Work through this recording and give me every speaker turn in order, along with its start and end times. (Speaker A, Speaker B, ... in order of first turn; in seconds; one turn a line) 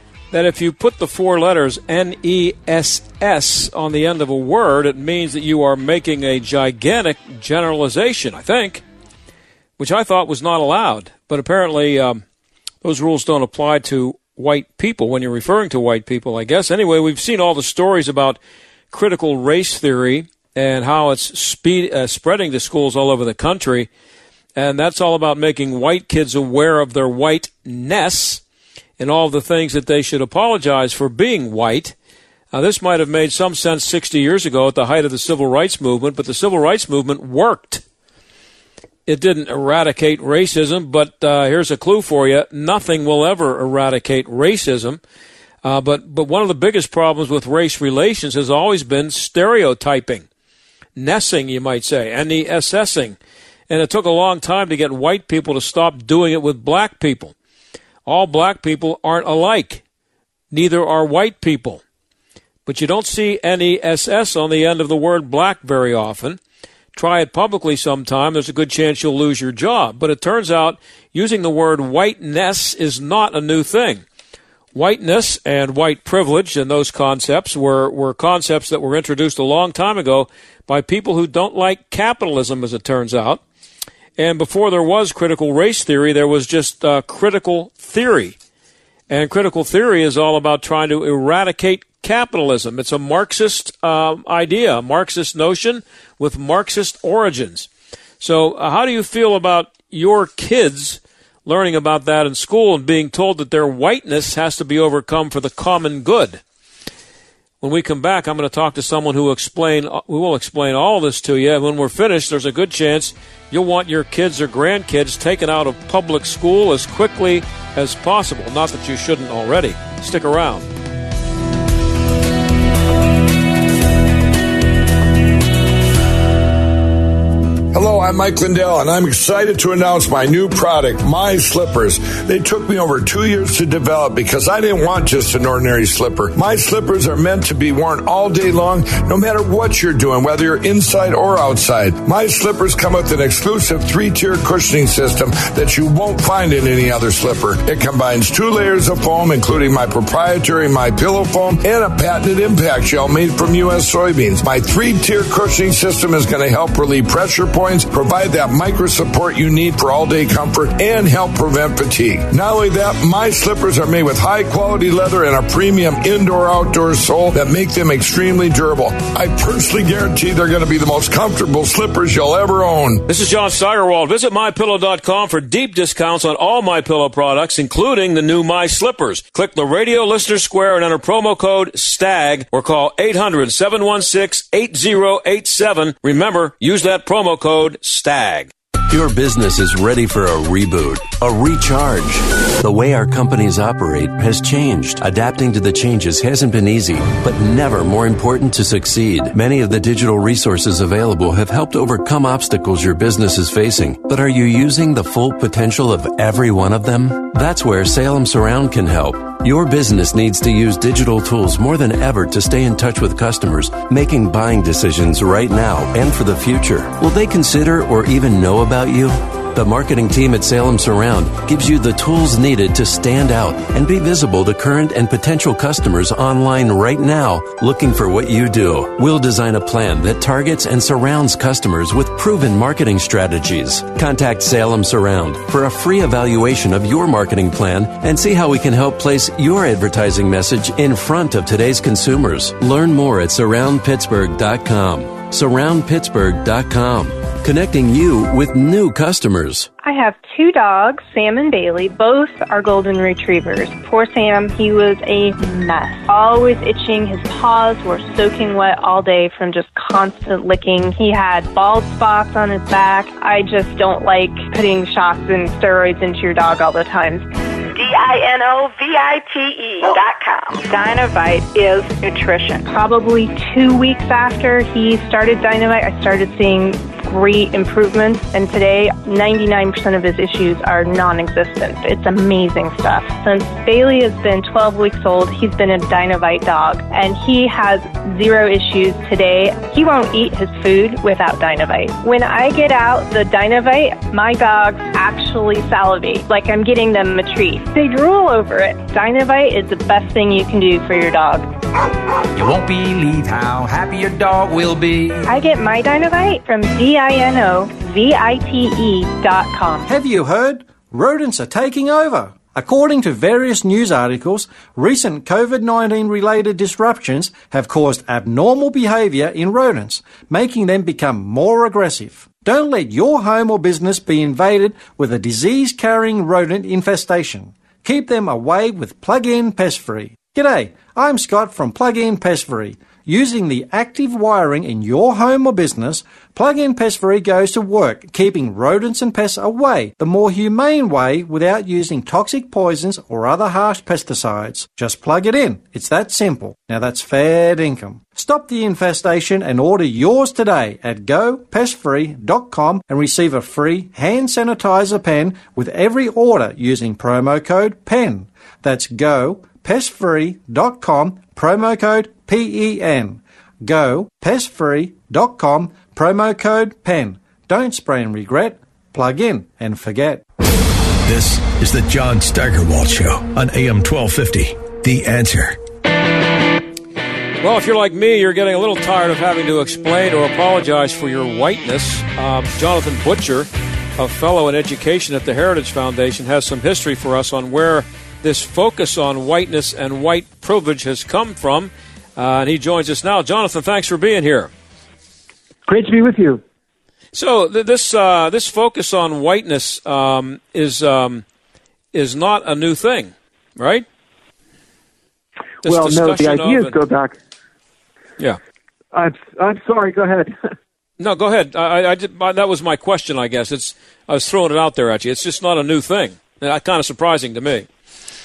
Speaker A: 0.3-8.8
Speaker A: 9.8-12.2
Speaker A: 12.8-18.4
Speaker A: 18.9-23.9
Speaker A: 24.6-28.4
Speaker A: 29.0-31.9
Speaker A: 32.5-37.8
Speaker A: 39.1-45.0
Speaker A: 45.6-50.3
Speaker A: 51.0-53.2
Speaker A: 53.7-57.4
Speaker A: 58.1-59.8
Speaker A: 60.5-61.8
Speaker A: 62.7-66.4
Speaker A: 67.0-74.0
Speaker A: 74.7-83.4
Speaker A: 84.2-88.4
Speaker A: 89.1-97.7
Speaker A: 98.2-106.4
Speaker A: 107.6-120.7
Speaker B: 127.7-173.0
Speaker A: 173.1-188.5
Speaker C: 188.9-249.7
Speaker D: 249.8-267.3
Speaker E: 267.7-270.9
Speaker E: 271.6-272.1
Speaker D: 272.6-301.5
Speaker F: 302.3-305.3
Speaker D: 305.3-309.9
Speaker G: 309.9-370.2
Speaker H: 371.1-375.6
Speaker A: 377.4-394.5
Speaker I: 395.7-396.4
Speaker A: 397.1-401.2
Speaker A: 401.9-403.9
Speaker A: 405.6-406.8
Speaker I: 405.6-407.2
Speaker I: 408.9-410.3
Speaker A: 411.0-417.7